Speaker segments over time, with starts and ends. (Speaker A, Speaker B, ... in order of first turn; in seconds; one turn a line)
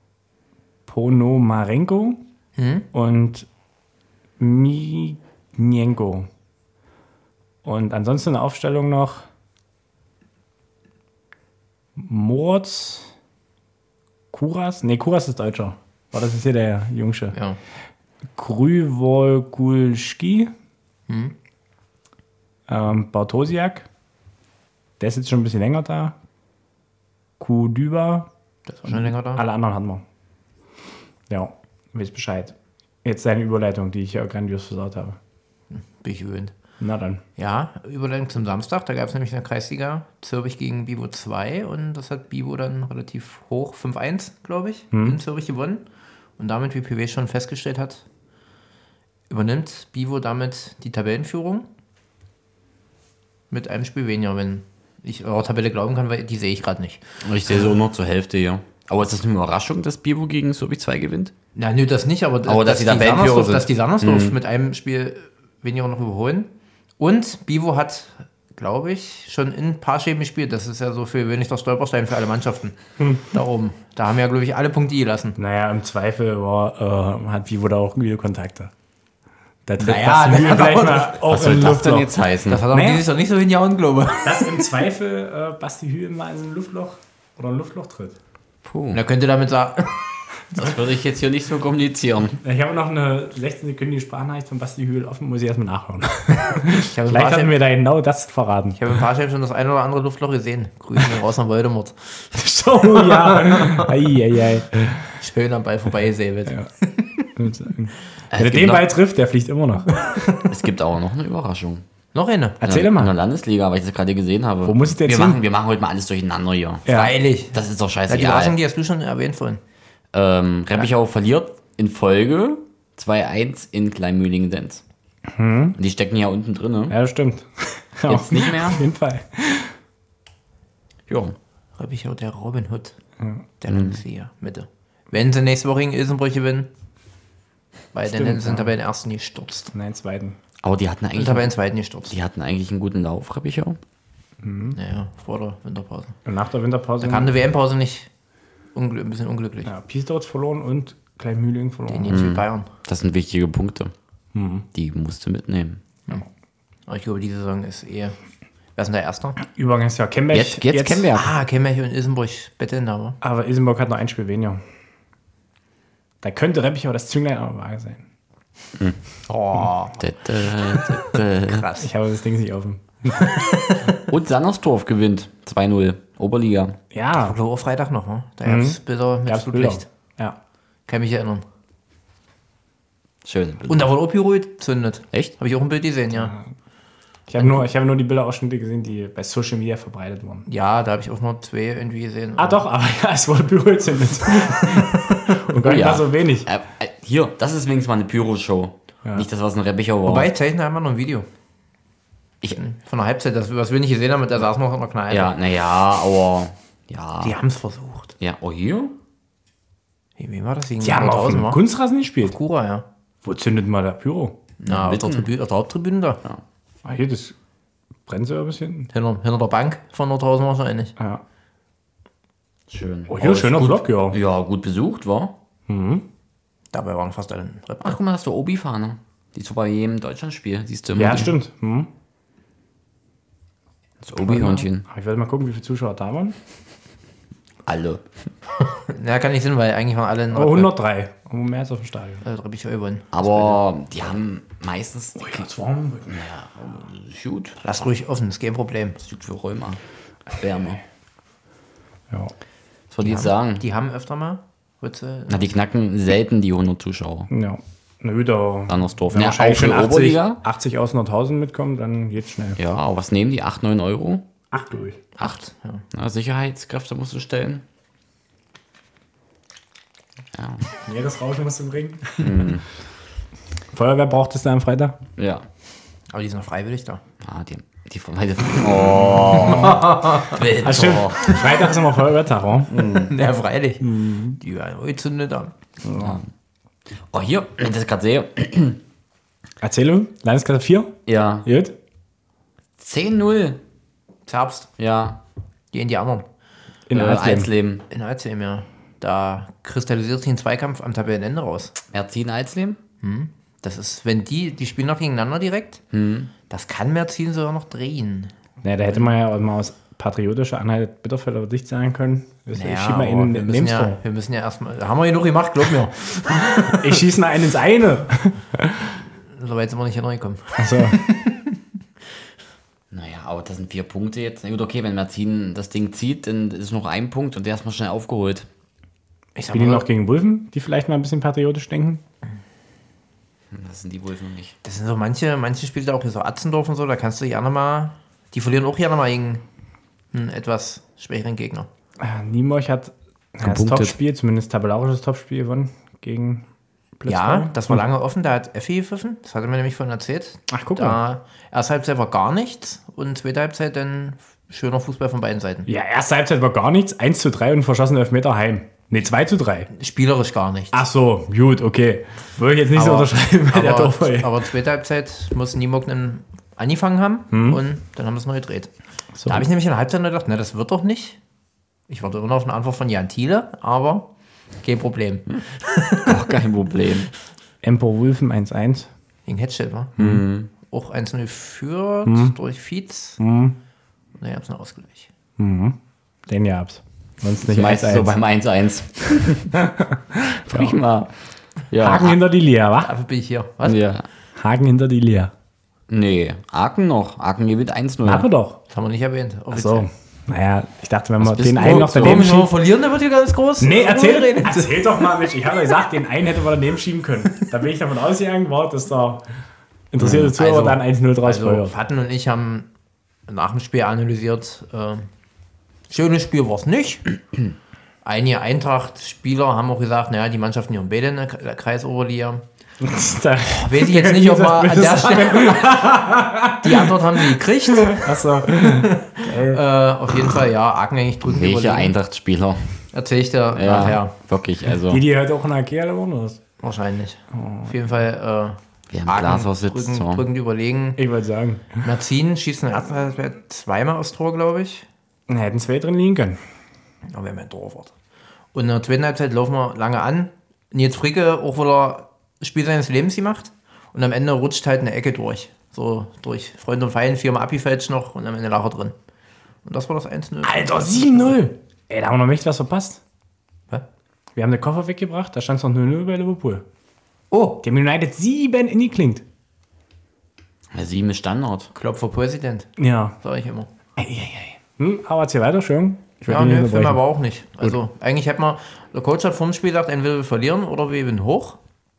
Speaker A: 0.9-2.2
Speaker B: 2.6-2.9
Speaker A: 2.9-3.5
Speaker A: 4.4-6.3
Speaker A: 7.6-9.3
Speaker A: 12.0-13.1
Speaker A: 14.3-17.4
Speaker A: 18.4-20.5
Speaker B: 21.1-21.4
Speaker A: 22.7-23.9
Speaker A: 25.0-26.1
Speaker A: 27.4-28.3
Speaker B: 28.7-29.4
Speaker A: 28.9-30.0
Speaker A: 31.3-35.2
Speaker B: 35.7-36.5
Speaker A: 36.8-37.2
Speaker B: 37.4-45.9
Speaker B: 46.4-48.0
Speaker B: 49.3-51.7
Speaker B: 53.5-57.5
Speaker C: 57.2-61.3
Speaker B: 61.6-75.4
Speaker C: 62.5-64.4
Speaker A: 75.4-78.7
Speaker A: 79.7-82.2
Speaker B: 79.8-81.2
Speaker C: 81.2-82.7
Speaker B: 82.5-84.7
Speaker A: 82.7-83.0
Speaker A: 84.2-88.2
Speaker C: 88.7-89.0
Speaker B: 88.9-90.1
Speaker C: 90.5-92.4
Speaker A: 92.4-98.8
Speaker B: 96.4-97.6
Speaker B: 98.7-104.0
Speaker A: 102.3-105.1
Speaker B: 105.2-107.3
Speaker A: 107.4-110.2
Speaker C: 108.3-108.9
Speaker B: 110.2-110.5
Speaker C: 110.5-111.8
Speaker B: 112.2-112.6
Speaker A: 112.6-113.2
Speaker C: 112.6-117.0
Speaker A: 114.7-115.4
Speaker A: 116.9-117.1
Speaker B: 116.9-119.6
Speaker C: 117.5-118.6
Speaker C: 120.1-124.8
Speaker A: 125.3-125.8
Speaker C: 125.8-127.0
Speaker A: 126.9-129.8
Speaker C: 128.1-128.8
Speaker C: 131.1-131.4
Speaker B: 131.8-133.0
Speaker A: 133.2-133.5
Speaker B: 133.6-136.7
Speaker C: 133.7-134.0
Speaker B: 137.9-139.7
Speaker A: 138.1-138.7
Speaker A: 139.7-140.4
Speaker C: 140.6-141.5
Speaker B: 141.1-142.1
Speaker C: 142.1-143.8
Speaker A: 144.4-144.8
Speaker B: 144.7-146.2
Speaker A: 146.2-147.3
Speaker B: 147.0-148.1
Speaker B: 148.8-149.7
Speaker A: 149.7-152.2
Speaker B: 151.9-152.7
Speaker C: 152.1-153.9
Speaker A: 154.3-154.7
Speaker C: 154.7-155.8
Speaker B: 156.9-158.2
Speaker B: 158.8-159.4
Speaker A: 159.4-161.1
Speaker C: 160.3-161.3
Speaker B: 161.1-163.2
Speaker A: 163.2-164.6
Speaker A: 166.2-168.1
Speaker B: 169.3-170.0
Speaker C: 170.0-171.7
Speaker B: 170.7-171.9
Speaker A: 171.8-173.4
Speaker B: 173.1-174.1
Speaker C: 174.1-176.8
Speaker A: 176.9-177.4
Speaker B: 177.2-179.9
Speaker A: 178.4-180.4
Speaker B: 180.9-181.4
Speaker C: 183.2-183.9
Speaker B: 183.7-186.3
Speaker A: 186.2-186.4
Speaker A: 187.3-190.5
Speaker B: 190.5-192.6
Speaker A: 192.4-196.5
Speaker C: 195.6-200.3
Speaker B: 200.0-201.3
Speaker B: 202.5-205.3
Speaker C: 205.1-207.4
Speaker B: 207.2-208.1
Speaker C: 208.2-208.9
Speaker B: 210.2-211.6
Speaker A: 210.8-212.4
Speaker B: 212.2-212.9
Speaker A: 213.2-214.4
Speaker B: 214.6-216.2
Speaker C: 214.7-215.3
Speaker A: 216.8-217.4
Speaker A: 218.1-218.9
Speaker B: 218.9-220.9
Speaker A: 221.0-221.2
Speaker C: 222.7-225.3
Speaker A: 223.1-224.2
Speaker A: 225.7-226.1
Speaker B: 226.7-228.0
Speaker C: 227.8-231.3
Speaker A: 231.0-231.9
Speaker C: 234.0-234.9
Speaker A: 234.3-236.4
Speaker C: 237.7-238.1
Speaker B: 238.7-240.7
Speaker A: 240.3-242.2
Speaker B: 242.2-243.6
Speaker C: 243.1-245.5
Speaker A: 245.2-246.1
Speaker C: 246.0-247.7
Speaker B: 247.6-249.0
Speaker C: 249.0-249.8
Speaker C: 250.3-250.8
Speaker C: 252.9-253.6
Speaker B: 253.0-255.6
Speaker C: 255.3-257.3
Speaker A: 257.3-262.6
Speaker C: 258.7-260.4
Speaker C: 262.6-264.2
Speaker A: 264.5-265.1
Speaker B: 265.1-265.8
Speaker C: 265.9-267.6
Speaker C: 270.3-270.7
Speaker A: 270.9-272.5
Speaker C: 272.2-272.6
Speaker A: 273.7-275.0
Speaker C: 275.2-275.4
Speaker B: 276.1-277.0
Speaker C: 277.2-281.3
Speaker A: 279.1-279.9
Speaker B: 279.3-281.7
Speaker A: 280.6-282.9
Speaker C: 282.8-283.1
Speaker B: 282.8-285.5
Speaker A: 283.8-284.4
Speaker A: 285.8-286.2
Speaker C: 286.0-286.2
Speaker C: 287.1-288.8
Speaker A: 289.6-290.9
Speaker C: 291.1-291.5
Speaker A: 291.4-291.8
Speaker C: 292.8-293.6
Speaker B: 294.3-294.7
Speaker C: 294.8-295.2
Speaker B: 295.7-296.3
Speaker A: 296.9-297.5
Speaker C: 296.9-297.8
Speaker B: 297.9-301.8
Speaker C: 301.9-302.8
Speaker B: 303.0-305.8
Speaker C: 305.9-306.3
Speaker B: 306.5-308.3
Speaker A: 308.6-314.0
Speaker B: 312.5-317.0
Speaker A: 316.7-319.0
Speaker B: 319.3-321.6
Speaker A: 320.6-321.0
Speaker C: 322.9-328.5
Speaker B: 329.4-329.9
Speaker A: 329.5-332.0
Speaker C: 333.5-334.6
Speaker B: 334.6-339.4
Speaker B: 340.1-341.7
Speaker A: 342.0-346.4
Speaker C: 343.4-343.9
Speaker A: 347.0-347.8
Speaker B: 347.1-355.7
Speaker A: 350.5-351.0
Speaker A: 355.7-359.7
Speaker B: 359.7-360.8
Speaker A: 360.7-364.4
Speaker B: 362.7-368.7
Speaker A: 367.3-367.6
Speaker A: 369.2-369.5
Speaker B: 369.3-371.2
Speaker B: 371.9-374.1
Speaker B: 374.6-376.3
Speaker C: 376.0-377.1
Speaker A: 377.6-378.9
Speaker B: 379.3-379.9
Speaker A: 380.0-380.2
Speaker C: 380.0-380.5
Speaker B: 380.6-383.2
Speaker A: 382.1-382.4
Speaker A: 383.2-383.6
Speaker B: 384.2-385.1
Speaker A: 385.4-388.2
Speaker C: 387.4-389.6
Speaker A: 389.5-390.8
Speaker C: 390.5-391.2
Speaker C: 391.7-392.2
Speaker A: 391.8-392.9
Speaker B: 392.8-393.8
Speaker C: 393.6-394.1
Speaker A: 394.4-395.3
Speaker C: 395.9-398.3
Speaker A: 398.1-398.6
Speaker B: 398.7-399.9
Speaker A: 399.5-402.5
Speaker C: 401.2-402.4
Speaker B: 401.6-405.1
Speaker A: 403.6-409.2
Speaker A: 409.9-411.8
Speaker B: 410.0-412.7
Speaker B: 413.3-415.1
Speaker B: 415.9-417.1
Speaker B: 418.0-422.4
Speaker A: 422.8-427.2
Speaker B: 423.6-426.0
Speaker B: 426.6-431.9
Speaker A: 427.8-429.6
Speaker C: 431.2-432.8
Speaker B: 432.9-434.1
Speaker C: 433.6-435.0
Speaker A: 434.8-436.4
Speaker B: 436.6-441.0
Speaker A: 437.3-437.7
Speaker C: 438.9-440.3
Speaker A: 441.0-441.8
Speaker B: 441.8-444.9
Speaker A: 445.3-446.4
Speaker B: 447.1-447.9
Speaker B: 448.5-458.9
Speaker B: 459.6-461.4
Speaker A: 460.4-463.0
Speaker A: 464.4-466.6
Speaker B: 467.3-467.6
Speaker A: 467.6-469.2
Speaker C: 470.7-471.7
Speaker B: 471.7-472.7
Speaker A: 472.8-473.2
Speaker B: 473.2-473.7
Speaker A: 474.0-477.0
Speaker B: 476.3-481.6